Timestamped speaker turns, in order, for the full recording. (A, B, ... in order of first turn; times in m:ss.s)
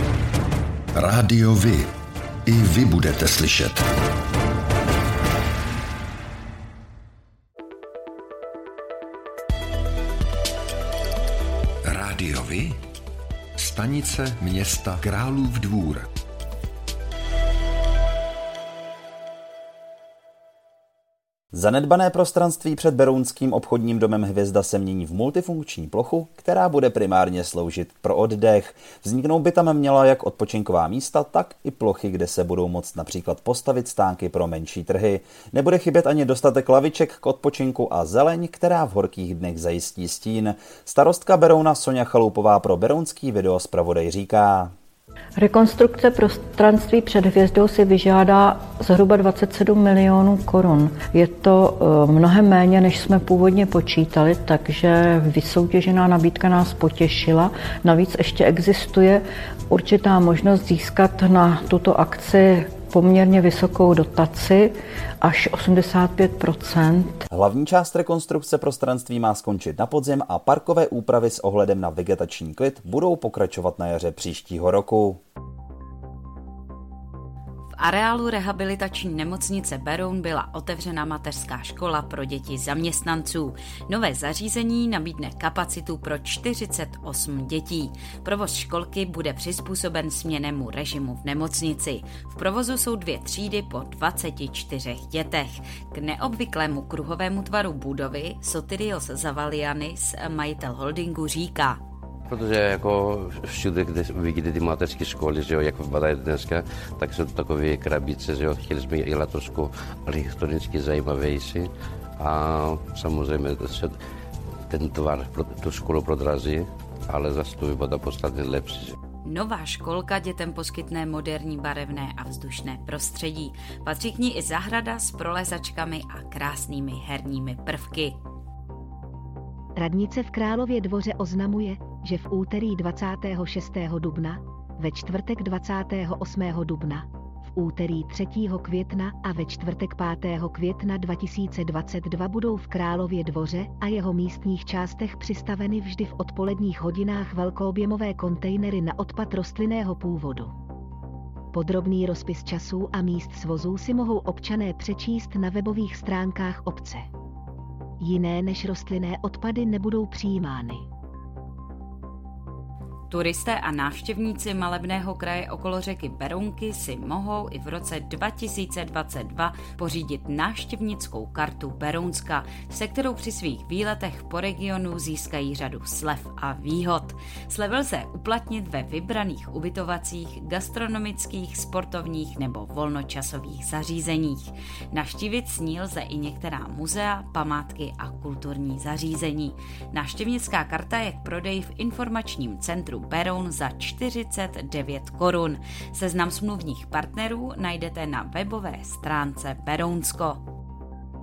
0:00.9-0:01.9 A
0:02.4-0:03.8 A
0:11.8-0:12.8 A
0:13.6-0:16.1 A
0:21.5-0:44.7 B
0:45.4-1:07.2 C
1:07.3-1:15.2 B
1:17.8-1:41.8 D
1:42.3-1:54.0 E
1:54.7-1:59.0 E
1:59.2-2:08.2 D
2:09.8-2:30.5 F
2:31.5-2:37.1 F
2:38.0-2:40.8 F
2:43.1-3:20.4 D